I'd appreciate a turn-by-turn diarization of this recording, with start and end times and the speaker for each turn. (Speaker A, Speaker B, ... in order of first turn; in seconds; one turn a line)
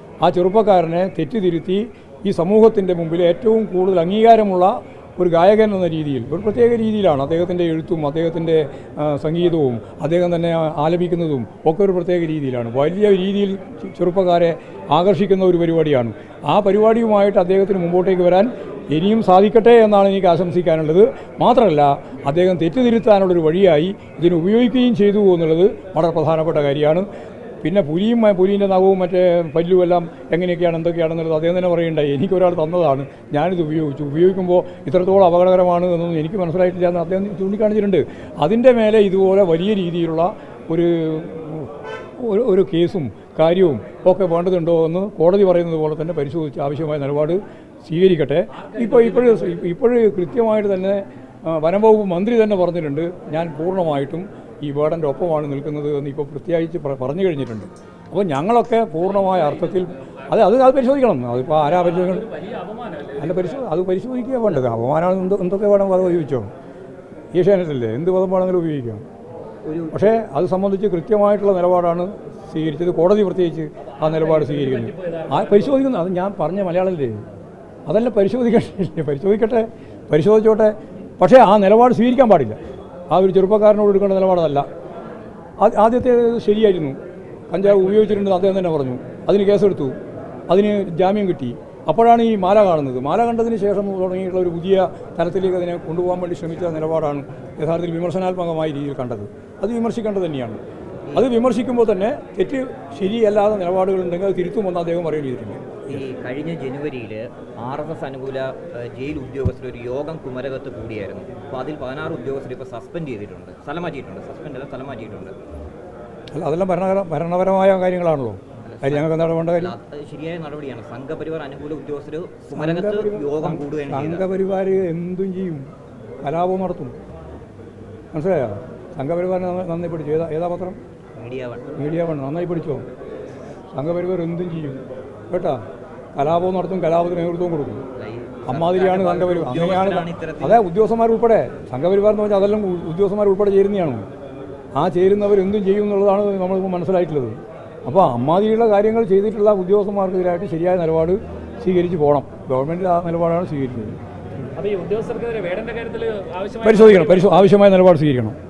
Speaker A: 0.2-27.1
Speaker A: 27.6-62.2
Speaker B: 48.5-49.7
Speaker B: 59.0-60.5
Speaker B: 61.5-63.7
Speaker A: 63.2-66.5
Speaker A: 67.3-69.0
Speaker C: 69.6-70.2
Speaker A: 69.9-77.2
Speaker B: 73.8-75.8
Speaker A: 77.9-82.6
Speaker A: 83.1-84.7
Speaker A: 85.6-87.0
Speaker A: 87.5-90.0
Speaker B: 87.7-88.2
Speaker A: 90.5-100.6
Speaker A: 101.1-105.6
Speaker C: 105.9-115.4
Speaker A: 116.3-119.8
Speaker C: 118.6-124.2
Speaker A: 122.5-125.7
Speaker A: 126.2-126.9
Speaker A: 128.1-130.8
Speaker C: 131.2-131.7
Speaker A: 131.8-132.8
Speaker A: 133.7-135.6
Speaker A: 136.1-137.8
Speaker C: 138.0-140.6
Speaker A: 138.5-144.0
Speaker A: 144.8-153.9
Speaker B: 154.6-157.5
Speaker A: 156.6-158.4